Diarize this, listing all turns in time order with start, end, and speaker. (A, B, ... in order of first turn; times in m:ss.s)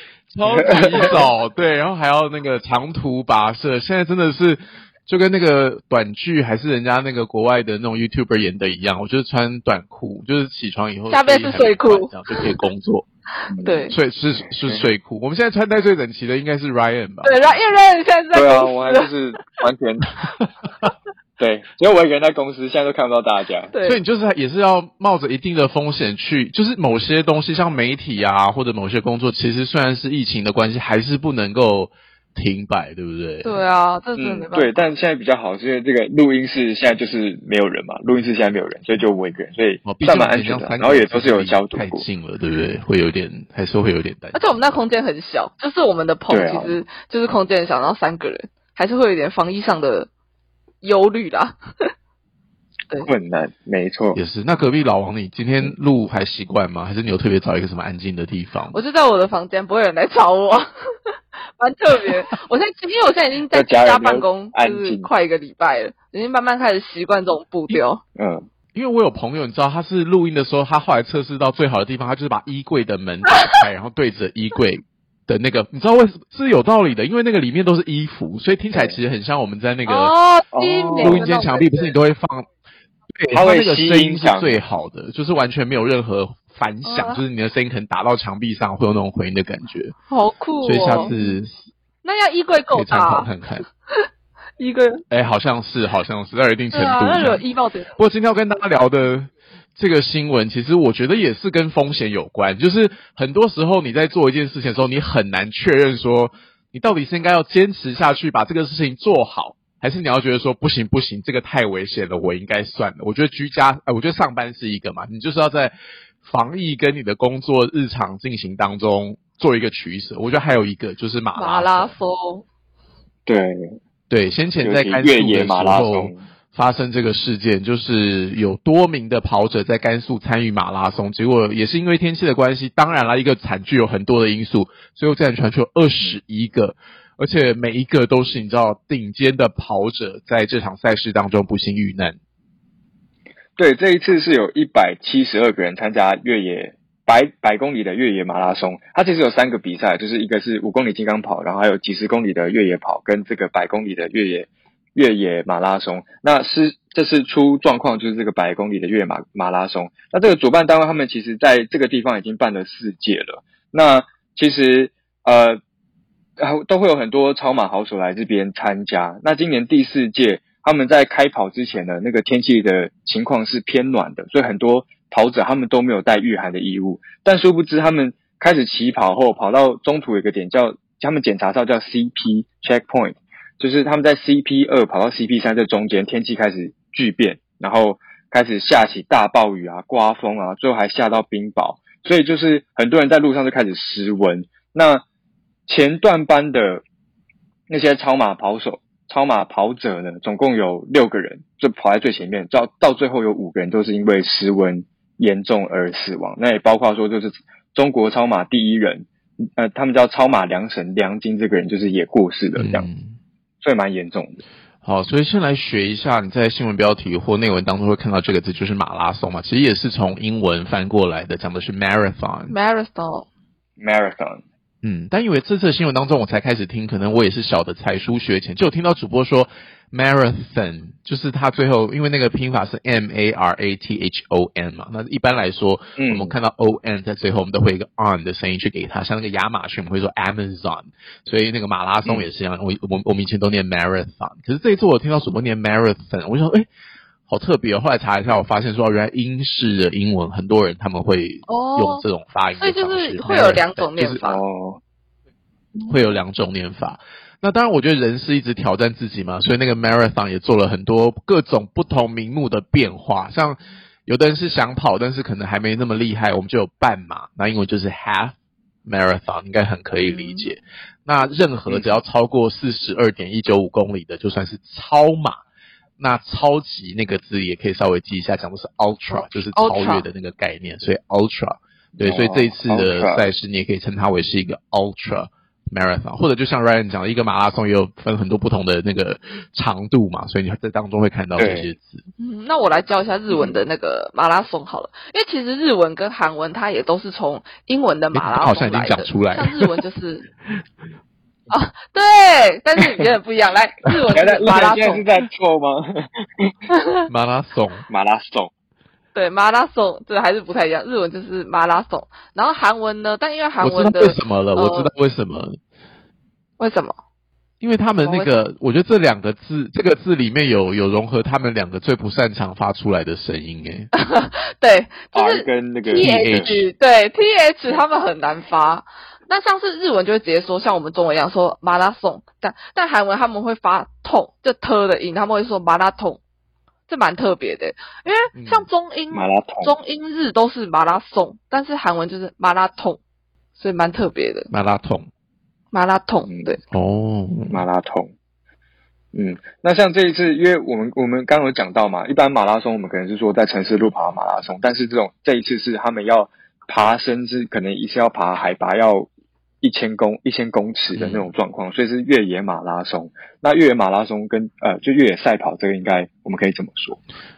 0:00.3-0:13.1 A
0:00.5-0:01.2 B
0:11.1-0:12.4 C
0:13.5-0:13.8 B
0:13.6-0:14.0 C
0:13.9-0:17.6 A
0:17.2-0:19.1 C
0:18.3-0:20.1 B
0:21.4-0:23.7 B
0:23.7-0:24.0 C
0:23.8-0:33.6 A
0:33.4-0:34.8 C
0:34.2-0:42.1 B
0:39.8-0:44.5 A
0:44.3-0:50.1 C
0:46.3-0:46.8 B
0:50.8-0:51.6 C
0:53.1-0:54.2 B
0:54.2-0:58.8 A
0:58.7-1:00.7 C
1:01.6-1:08.0 C
1:03.5-1:05.1 B
1:08.2-1:08.5 B
1:08.7-1:20.1 A
1:19.9-1:21.9 C
1:20.5-1:21.2 B
1:21.0-1:22.5 A
1:23.2-1:30.0 A
1:23.3-1:24.6 B
1:26.8-1:27.2 C
1:30.1-1:31.4 C
1:30.6-1:31.5 A
1:30.8-1:31.1 B
1:32.0-1:33.3 C
1:32.7-1:33.6 A
1:34.6-1:35.0 C
1:35.1-1:37.4 A
1:36.7-1:38.0 C
1:38.0-1:55.7 A
1:56.2-2:02.0 A
2:01.4-2:02.4 C
2:03.3-2:03.8 B
2:04.1-2:22.2 A
2:04.6-2:06.2 B
2:23.6-2:45.6 B
2:46.4-3:15.0 B
3:15.7-3:16.8 B
3:17.7-3:32.9 B
3:32.6-3:33.2 A
3:33.6-3:34.4 B
3:34.8-3:42.6 A
3:42.5-3:43.3 C
3:43.8-3:44.4 B
3:44.8-4:06.7 A
3:56.0-3:56.4 B
4:07.3-4:14.2 A
4:11.5-4:12.0 C
4:12.6-4:14.4 C
4:14.2-4:14.8 B
4:15.9-4:35.4 A
4:30.0-4:30.5 C
4:31.7-4:32.0 B
4:36.0-4:52.0 A
4:39.1-4:40.1 C
4:42.0-4:43.2 B
4:51.4-4:51.7 B
4:52.2-5:00.3 C
4:53.3-4:53.6 B
4:58.1-4:59.8 A
5:01.5-5:05.0 C
5:04.1-5:06.5 B
5:06.7-5:07.0 C
5:07.1-5:07.8 A
5:07.9-5:08.5 B
5:09.2-5:14.9 C
5:13.6-5:15.6 A
5:16.6-5:17.0 C
5:17.6-5:23.9 A
5:18.0-5:18.3 C
5:24.0-5:36.2 C
5:25.1-5:26.6 B
5:26.0-5:26.7 A
5:36.9-5:43.0 C
5:38.4-5:38.7 A
5:39.1-5:39.7 B
5:43.6-5:44.5 C
5:44.5-5:45.1 A
5:45.7-5:46.6 C
5:46.7-5:47.6 A
5:47.5-5:48.1 B
5:49.1-5:59.1 B
5:59.6-6:07.0 B
6:01.0-6:01.3 A